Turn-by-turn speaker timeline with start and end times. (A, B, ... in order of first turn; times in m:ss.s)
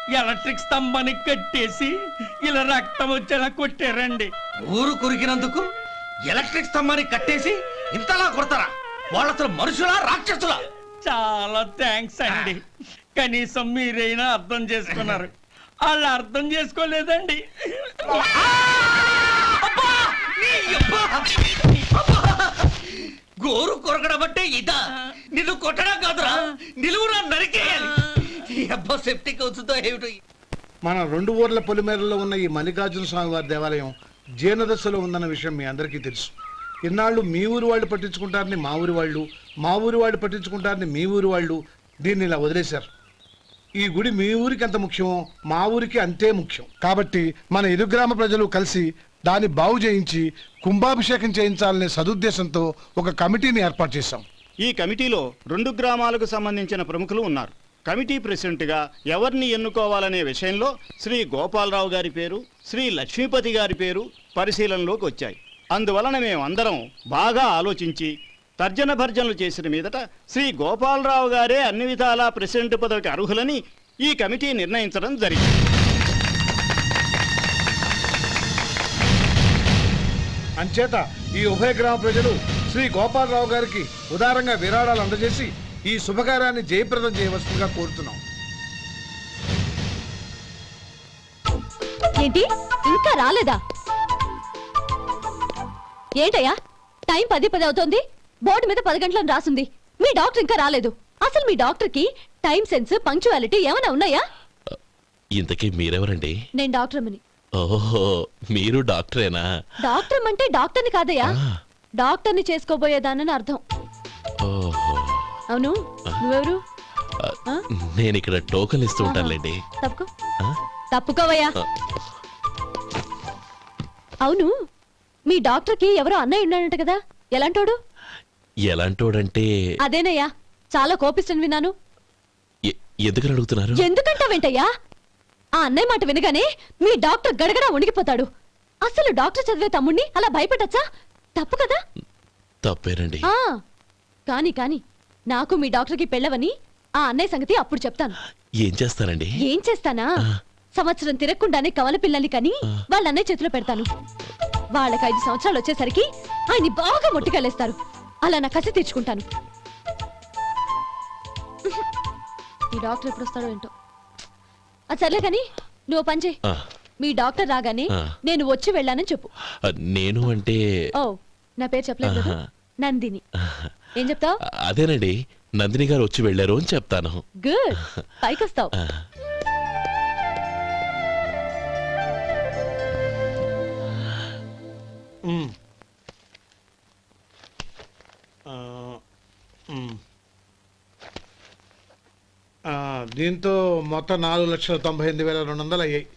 0:00.1-0:01.9 A
0:02.4-0:04.3 A
0:04.7-0:05.6 B
0:06.3-0:10.6 B
0:11.0-0:12.6 A
0:13.1-0:15.3 A
0:15.8-0:17.4 A
0:20.6-0:21.1 B
0:23.4-0:24.8 B
0:25.3-0:27.9 B
0:28.6-0:30.1 B
0:30.8-0:36.3 C
0:36.8-0:42.9 C
0:43.8-0:54.2 C
0:54.6-1:15.5 D
1:20.6-1:28.2 C
1:32.2-1:33.6 E
1:36.2-1:36.5 E
1:37.1-1:44.2 E
1:45.4-1:46.3 F
1:46.6-1:47.2 E
1:47.6-1:49.4 F
1:49.8-1:51.3 E
1:52.0-1:53.6 E
1:54.4-1:55.4 F
1:55.5-1:56.6 E
1:57.2-1:59.6 F
1:59.0-2:00.1 E
2:00.9-2:01.5 E
2:04.2-2:04.5 E
2:05.3-2:07.8 E
2:08.7-2:09.5 F
2:09.8-2:11.7 E
2:12.7-2:13.8 F
2:13.8-2:14.7 E
2:15.6-2:18.2 E
2:18.8-2:20.8 E
2:21.4-2:21.8 E
2:22.6-2:23.2 F
2:24.3-2:28.2 E
2:28.6-2:29.4 F
2:29.4-2:30.1 E
2:30.7-2:33.9 E
2:34.7-2:39.2 E
2:42.7-2:43.7 E
2:44.9-2:46.4 E
2:47.0-2:49.3 E
2:49.6-2:50.6 F
2:51.0-2:53.2 E
2:52.1-2:52.4 F
2:53.4-2:53.7 F
2:54.0-2:54.3 E
2:54.7-2:57.2 F
2:57.4-2:58.7 E
2:58.8-2:59.0 F
3:05.2-3:05.5 C
3:08.5-3:09.0 C
3:09.7-3:10.0 C
3:12.7-3:16.0 C